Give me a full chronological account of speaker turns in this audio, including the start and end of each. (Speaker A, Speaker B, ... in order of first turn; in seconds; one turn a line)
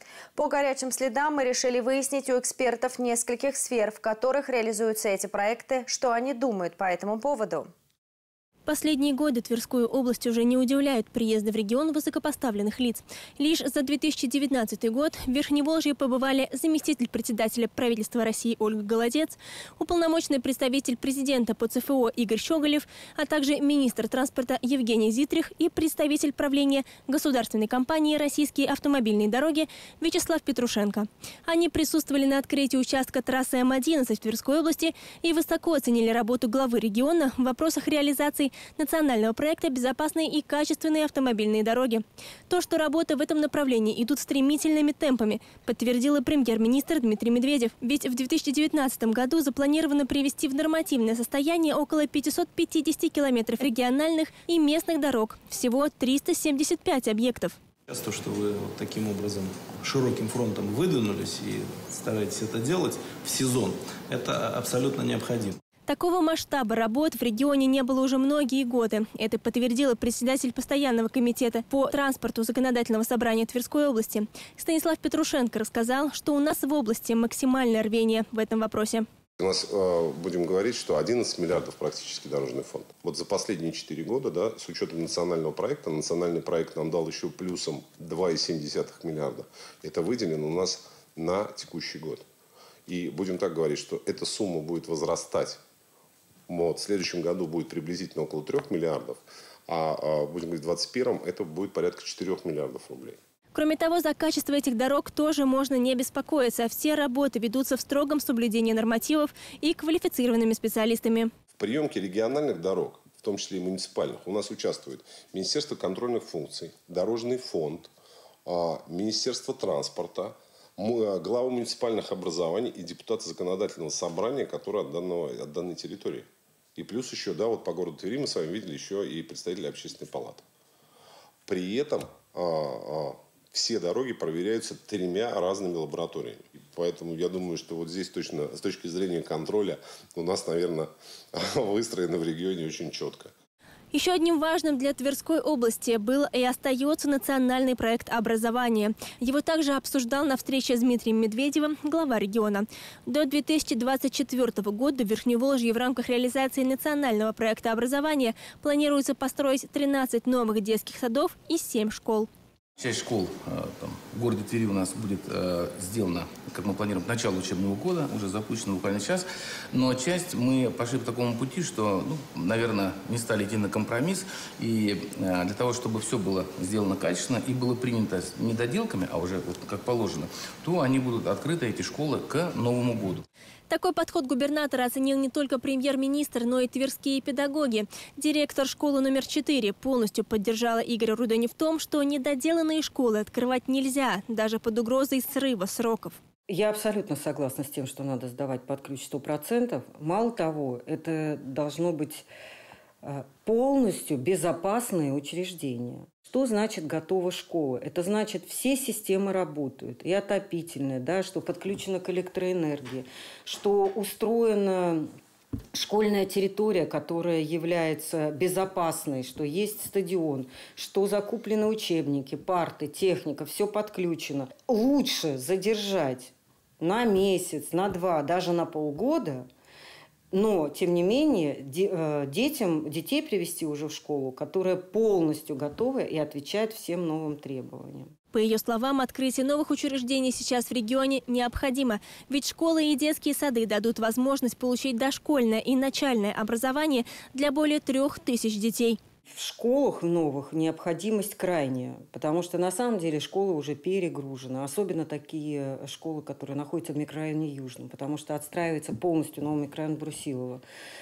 Speaker A: 0.4-7.7
Speaker B: 8.7-57.6
Speaker C: 57.9-65.6
Speaker B: 65.9-79.1
Speaker D: 79.4-92.2
Speaker D: 92.9-95.6
Speaker D: 96.5-103.2
Speaker B: 103.5-111.3
Speaker D: 111.6-117.9
Speaker D: 118.5-130.4
Speaker D: 131.5-143.3
Speaker B: 143.9-162.3
Speaker E: 162.8-183.2
Speaker B: 183.7-196.2
Speaker F: 196.5-202.3
Speaker F: 203.0-215.1
Speaker F: 215.7-229.5
Speaker F: 230.3-238.1
Speaker B: 238.3-249.0
Speaker F: 249.3-260.6